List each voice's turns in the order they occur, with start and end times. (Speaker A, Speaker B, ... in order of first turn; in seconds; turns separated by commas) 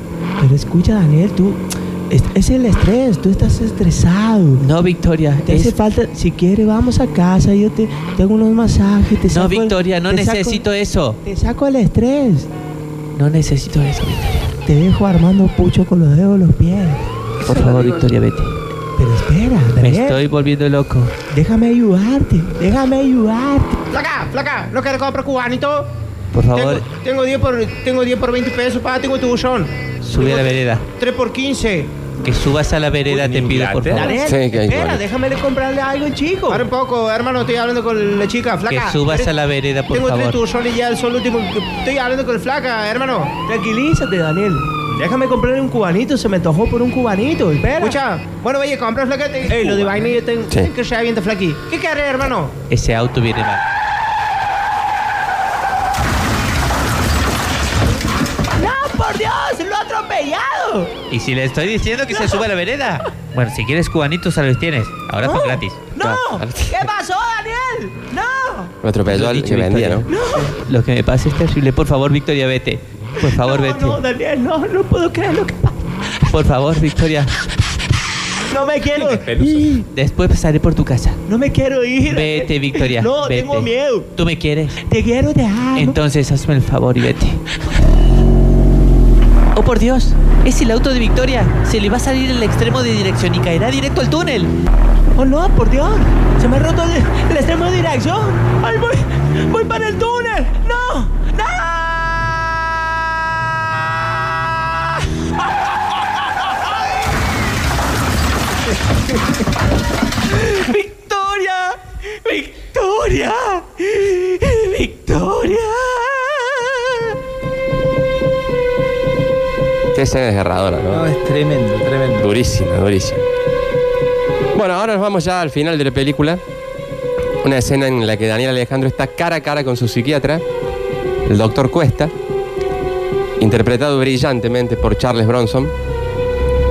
Speaker A: 0.4-4.6, Speaker B: 4.6-5.7, Speaker A: 5.5-10.6, Speaker B: 9.3-11.2, Speaker A: 11.2-12.5, Speaker B: 13.1-14.5, Speaker A: 14.7-17.0, Speaker C: 17.4-18.1, Speaker B: 17.4-18.6, Speaker A: 19.0-20.2, Speaker B: 19.8-21.1, Speaker A: 21.3-23.8, Speaker D: 23.9-25.9, Speaker B: 26.3-26.8, Speaker D: 26.5-32.0, Speaker B: 30.0-30.9, Speaker B: 32.2-34.2, Speaker C: 33.0-34.2, Speaker A: 33.9-36.7, Speaker E: 34.2-35.0, Speaker D: 36.5-39.3, Speaker B: 38.7-40.4, Speaker D: 39.9-43.4, Speaker A: 43.5-48.0, Speaker D: 47.8-52.6, Speaker A: 49.5-50.5, Speaker B: 52.7-53.6, Speaker A: 58.5-60.9, Speaker B: 61.1-65.8, Speaker A: 65.2-68.7, Speaker E: 66.0-66.9, Speaker E: 68.8-70.0, Speaker B: 69.1-74.0, Speaker A: 70.1-70.5, Speaker A: 73.2-75.9, Speaker B: 76.2-77.3, Speaker A: 78.5-79.8, Speaker C: 78.9-79.7, Speaker B: 79.9-81.2, Speaker A: 81.3-84.1, Speaker B: 82.1-84.8, Speaker A: 84.8-86.0, Speaker B: 85.8-87.4, Speaker B: 89.5-94.5, Speaker A: 95.2-102.6, Speaker A: 104.1-104.6, Speaker B: 110.4-111.8, Speaker A: 110.7-111.4, Speaker B: 112.3-116.1, Speaker E: 119.9-121.1, Speaker C: 120.9-122.3, Speaker E: 122.2-123.2, Speaker E: 124.5-126.4, Speaker E: 127.4-130.4, Speaker E: 131.2-132.1, Speaker E: 133.4-135.7